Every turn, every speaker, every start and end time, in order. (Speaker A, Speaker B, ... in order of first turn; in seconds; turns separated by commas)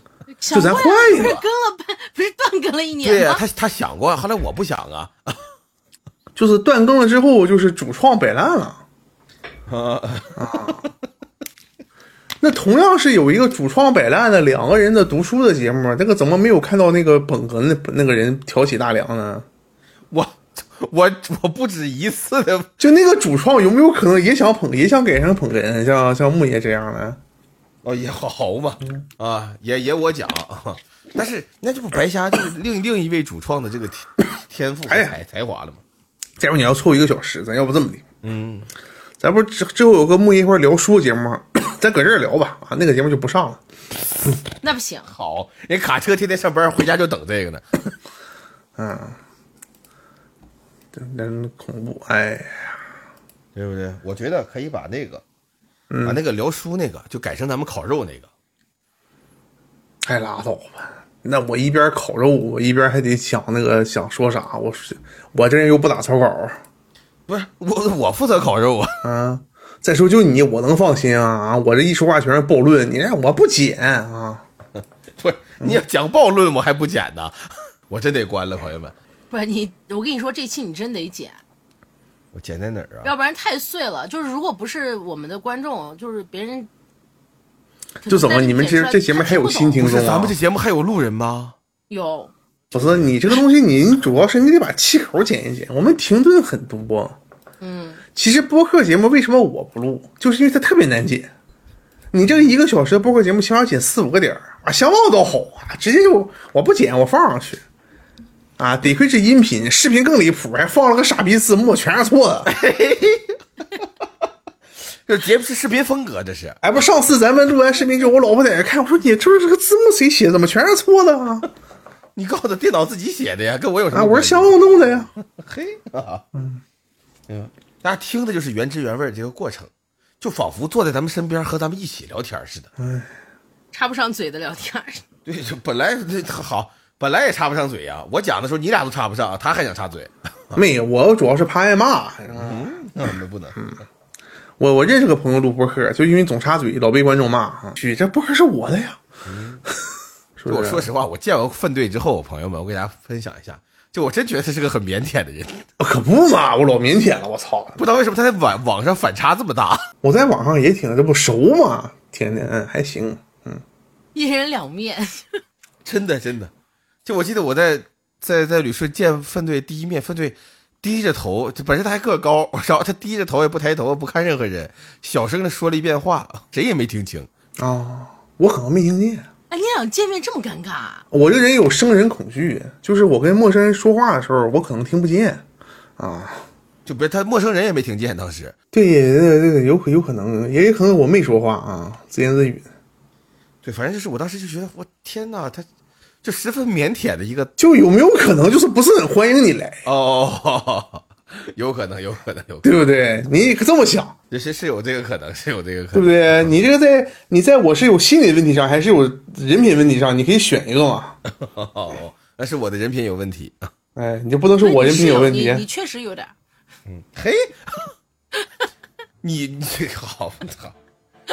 Speaker A: 0.4-3.4, Speaker B: 0.5-1.4, Speaker C: 3.0-5.4, Speaker B: 6.3-8.8, Speaker C: 9.7-10.9, Speaker B: 10.3-10.8, Speaker B: 12.4-19.4, Speaker C: 20.1-22.7, Speaker B: 22.8-27.2, Speaker C: 27.8-35.8, Speaker B: 34.9-35.1, Speaker B: 36.4-38.0, Speaker C: 38.2-38.7, Speaker B: 39.2-43.6, Speaker A: 44.6-45.1, Speaker C: 45.1-47.9, Speaker B: 48.8-49.2, Speaker B: 50.9-52.8, Speaker C: 53.5-55.2, Speaker B: 55.9-56.2, Speaker C: 56.0-58.3, Speaker B: 60.0-66.6, Speaker C: 67.3-69.0, Speaker B: 69.0-74.4, Speaker C: 75.1-77.4, Speaker C: 77.9-78.9, Speaker A: 79.3-81.4, Speaker C: 82.3-83.1, Speaker A: 83.0-86.7, Speaker A: 88.0-89.8, Speaker B: 88.1-90.3, Speaker C: 89.8-91.5, Speaker A: 91.9-92.3, Speaker B: 92.7-97.2, Speaker C: 92.8-93.0, Speaker A: 97.6-98.0, Speaker B: 98.1-101.3, Speaker B: 102.1-107.6, Speaker B: 108.6-112.5, Speaker C: 112.5-113.8, Speaker C: 115.0-116.6, Speaker B: 116.6-121.5, Speaker C: 122.2-124.5, Speaker B: 123.9-125.1, Speaker C: 125.2-126.2, Speaker B: 126.3-126.6, Speaker C: 127.3-129.7, Speaker C: 130.2-132.7, Speaker B: 132.8-133.1, Speaker A: 133.7-135.0, Speaker C: 135.2-140.6, Speaker B: 140.5-143.8, Speaker C: 142.3-143.6, Speaker B: 144.6-149.0, Speaker C: 149.2-149.6, Speaker B: 150.4-150.9, Speaker C: 150.5-155.7, Speaker B: 155.8-157.8, Speaker C: 157.8-159.8, Speaker B: 160.0-163.6, Speaker A: 164.1-165.4, Speaker C: 165.8-166.5, Speaker C: 167.0-177.3, Speaker B: 177.6-179.3, Speaker A: 179.5-181.0, Speaker B: 181.1-185.4, Speaker B: 186.0-186.4, Speaker C: 186.8-188.5, Speaker B: 188.7-192.7, Speaker C: 193.6-195.7, Speaker C: 196.2-197.5, Speaker B: 197.6-199.8, Speaker C: 199.8-202.8, Speaker B: 202.6-204.1, Speaker C: 204.3-206.3, Speaker B: 205.9-211.2, Speaker C: 211.2-213.7, Speaker B: 213.9-215.6, Speaker A: 214.6-216.3, Speaker C: 216.9-217.9, Speaker C: 219.2-220.7